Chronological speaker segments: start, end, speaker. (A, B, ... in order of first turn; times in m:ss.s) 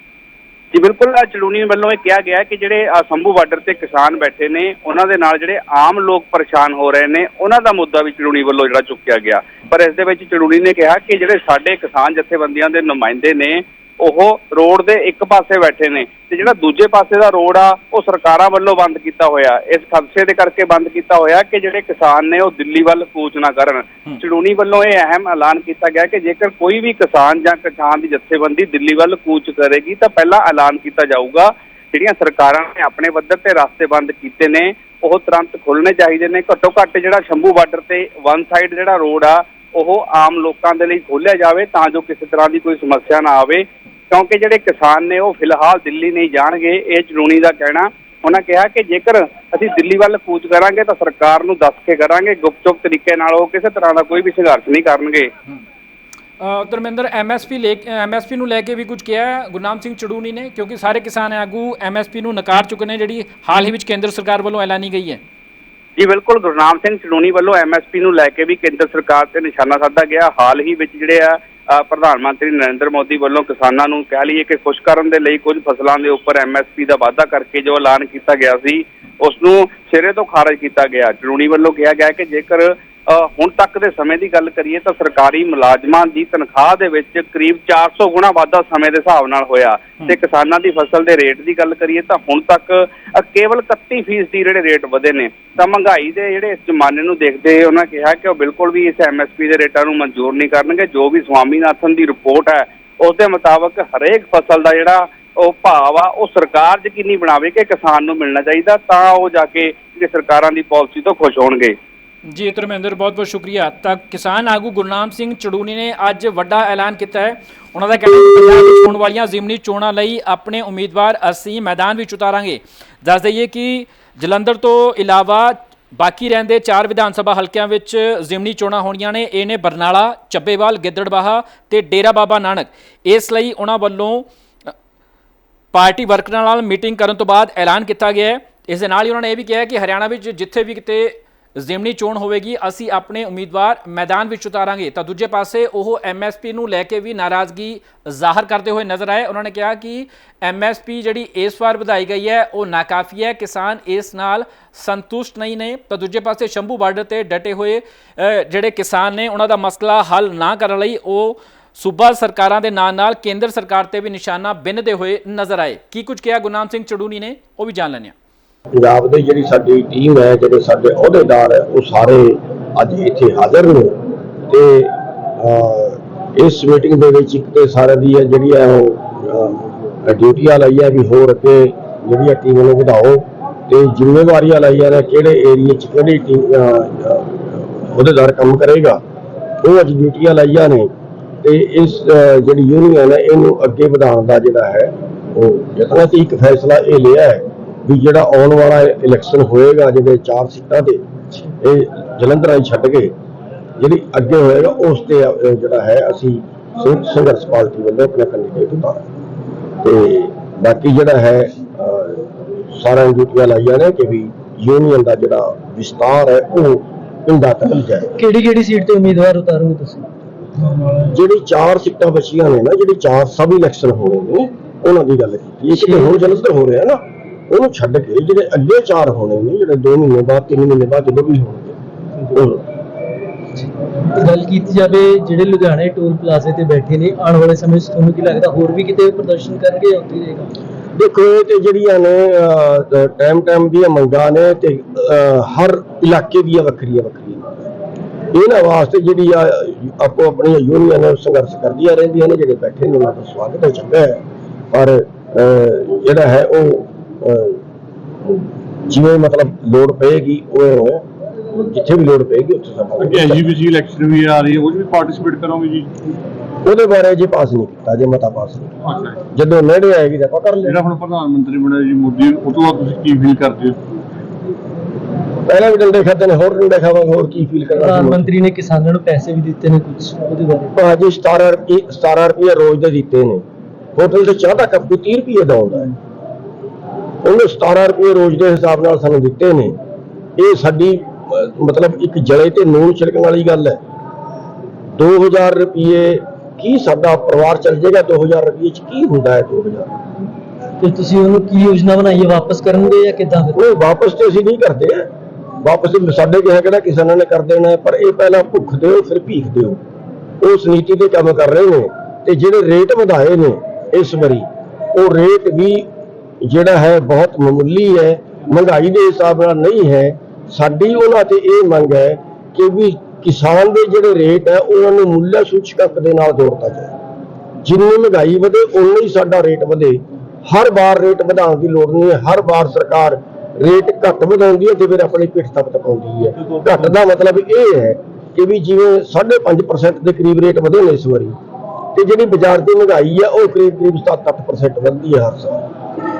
0:00.7-0:55.3 A
0:56.4-1:05.2 B
1:06.0-1:51.7 A
1:52.3-2:14.2 B
2:15.7-2:48.1 B
2:48.7-3:09.0 C
3:09.6-3:10.9 C
3:11.4-3:21.0 C
3:21.6-3:23.1 C
3:23.8-3:29.0 C
3:29.8-3:38.1 C
3:38.1-3:40.1 D
3:40.6-3:41.0 D
3:41.0-3:52.6 C
3:45.7-3:46.1 D
3:53.6-4:00.5 D
4:01.0-4:07.5 C
4:08.3-4:14.2 C
4:14.7-4:17.6 C
4:18.3-4:21.0 C
4:21.6-4:23.5 C
4:23.0-4:25.9 E
4:26.6-4:30.8 C
4:28.9-4:29.2 E
4:30.6-4:33.8 E
4:35.5-4:38.3 C
4:37.8-4:40.7 D
4:40.7-4:43.4 C
4:44.0-4:45.9 C
4:47.2-4:49.7 C
4:50.4-4:53.8 C
4:54.9-4:59.9 C
5:00.8-5:03.6 D
5:03.5-5:05.1 C
5:05.6-5:09.8 C
5:10.4-5:15.9 C
5:16.4-5:26.9 C
5:27.6-5:41.4 C
5:41.9-5:45.7 C